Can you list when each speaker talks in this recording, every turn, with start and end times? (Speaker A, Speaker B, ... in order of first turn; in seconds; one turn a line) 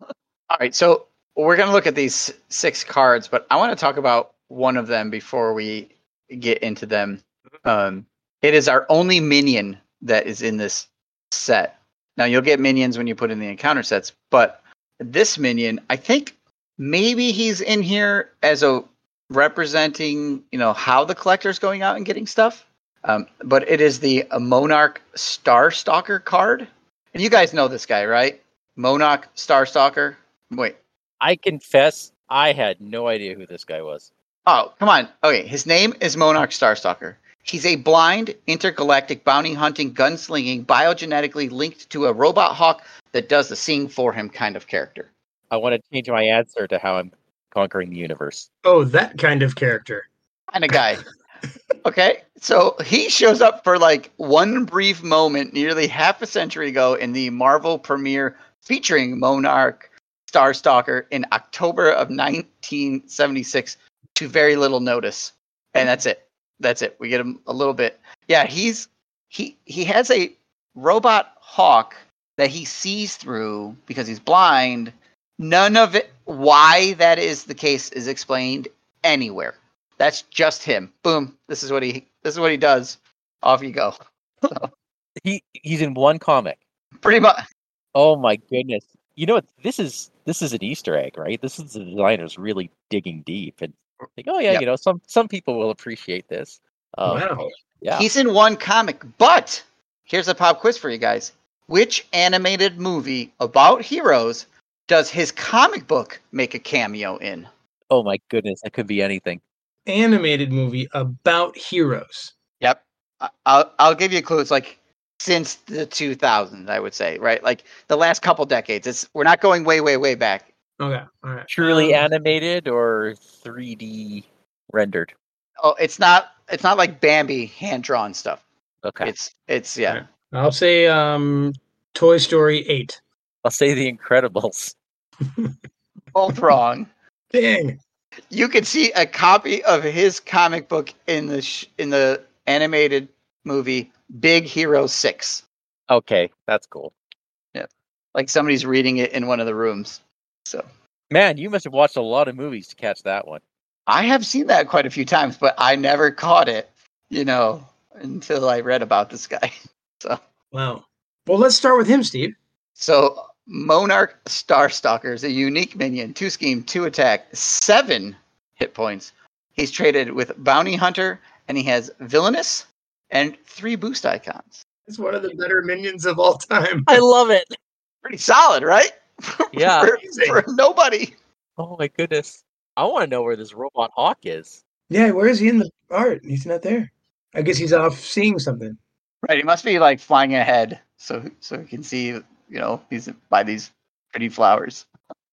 Speaker A: 0.5-30.8
Speaker B: 31.2-34.1
Speaker A: 34.5-45.1
Speaker B: 45.5-48.5
Speaker C: 48.6-50.1
Speaker A: 50.5-51.0
Speaker A: 51.8-84.7
Speaker B: 85.2-86.6
Speaker A: 87.0-87.4
Speaker B: 88.0-97.2
Speaker C: 97.0-97.5
Speaker B: 97.8-98.1
Speaker A: 97.9-107.5
Speaker B: 107.9-109.4
Speaker C: 109.9-112.3
Speaker A: 112.6-120.5
Speaker C: 120.8-122.1
Speaker B: 121.5-125.1
Speaker A: 125.6-128.4
Speaker B: 128.8-129.1
Speaker A: 129.0-130.0
Speaker C: 129.9-133.0
Speaker B: 133.4-134.8
Speaker C: 135.2-135.6
Speaker A: 136.1-136.9
Speaker C: 137.3-137.8
Speaker A: 138.3-145.4
Speaker B: 145.9-146.9
Speaker A: 147.5-150.7
Speaker B: 151.1-153.4
Speaker A: 153.9-160.2
Speaker C: 160.5-162.4
Speaker A: 162.8-174.6
Speaker C: 174.9-177.0
Speaker B: 176.9-177.5
Speaker A: 178.0-181.1
Speaker B: 179.5-179.9
Speaker C: 180.0-180.4
Speaker B: 181.6-184.6
Speaker C: 184.9-188.8
Speaker A: 189.2-194.9